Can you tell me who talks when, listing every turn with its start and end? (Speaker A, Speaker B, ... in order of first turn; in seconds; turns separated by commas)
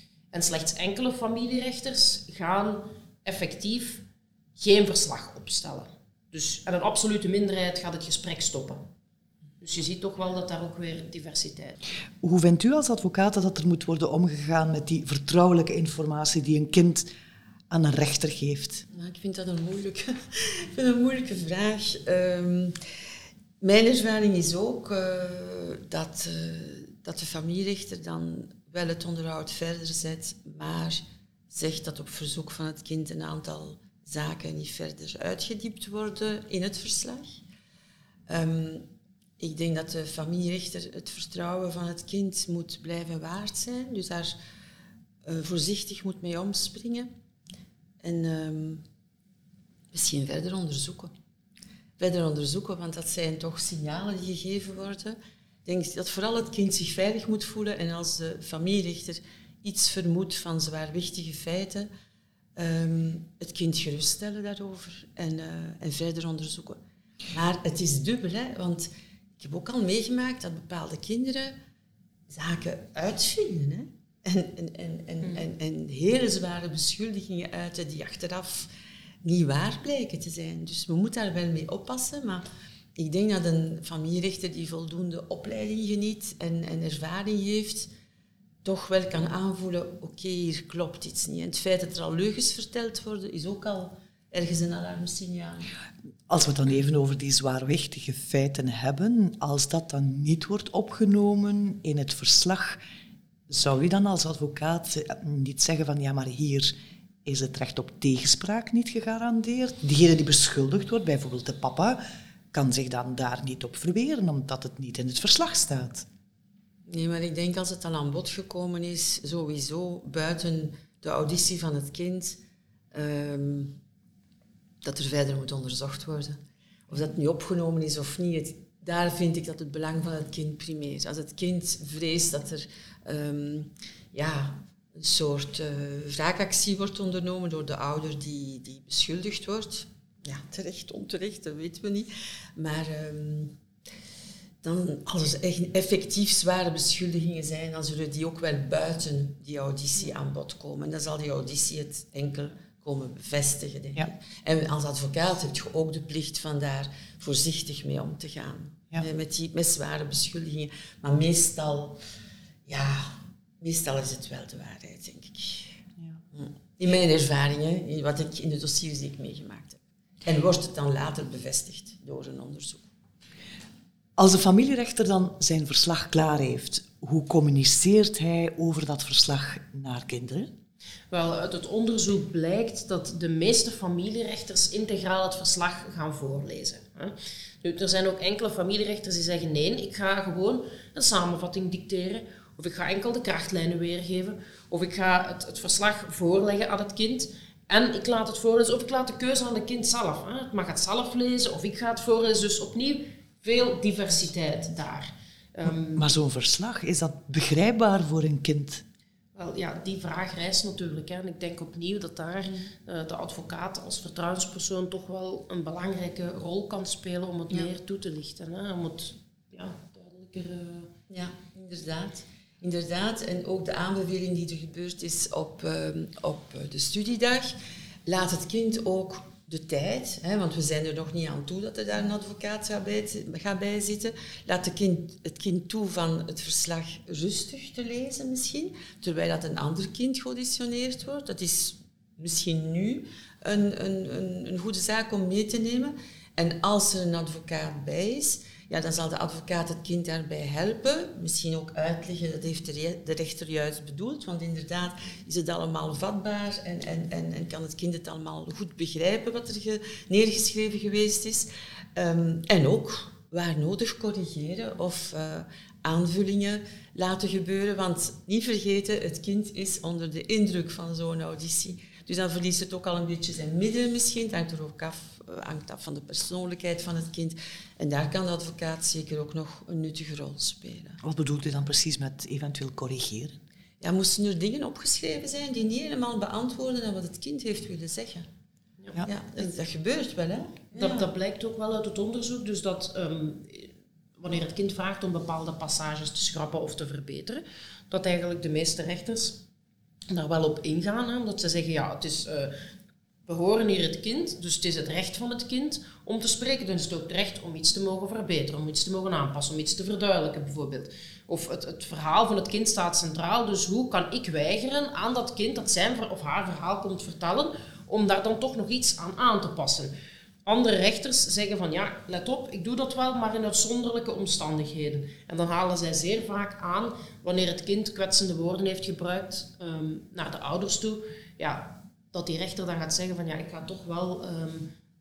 Speaker A: 0.3-4.0, Speaker A: 4.6-8.8, Speaker A: 9.6-11.8, Speaker B: 12.2-17.1, Speaker B: 17.7-18.9, Speaker C: 18.9-22.8, Speaker C: 23.6-37.4, Speaker C: 38.3-44.4, Speaker C: 45.2-47.1, Speaker C: 48.0-48.8, Speaker C: 49.9-51.1, Speaker C: 52.0-61.9, Speaker C: 62.5-66.8, Speaker C: 67.3-68.9, Speaker C: 69.4-71.5, Speaker C: 72.3-78.7, Speaker C: 79.2-82.4, Speaker C: 83.0-87.9, Speaker C: 88.6-95.7, Speaker B: 96.3-102.8, Speaker B: 103.5-106.7, Speaker B: 107.2-112.0, Speaker B: 112.5-116.1, Speaker C: 116.9-122.4, Speaker C: 122.9-123.8, Speaker C: 124.8-126.4, Speaker C: 126.9-143.6, Speaker C: 144.6-162.0, Speaker C: 162.7-165.8, Speaker C: 166.3-172.8, Speaker B: 174.2-180.5, Speaker A: 181.1-206.1, Speaker B: 205.9-208.8, Speaker A: 209.3-220.9, Speaker C: 221.1-227.5, Speaker C: 228.1-281.0, Speaker B: 281.0-283.4, Speaker C: 283.8-288.3, Speaker C: 289.1-291.1, Speaker A: 290.7-299.4, Speaker A: 300.1-302.5, Speaker A: 303.3-319.9, Speaker A: 320.4-334.7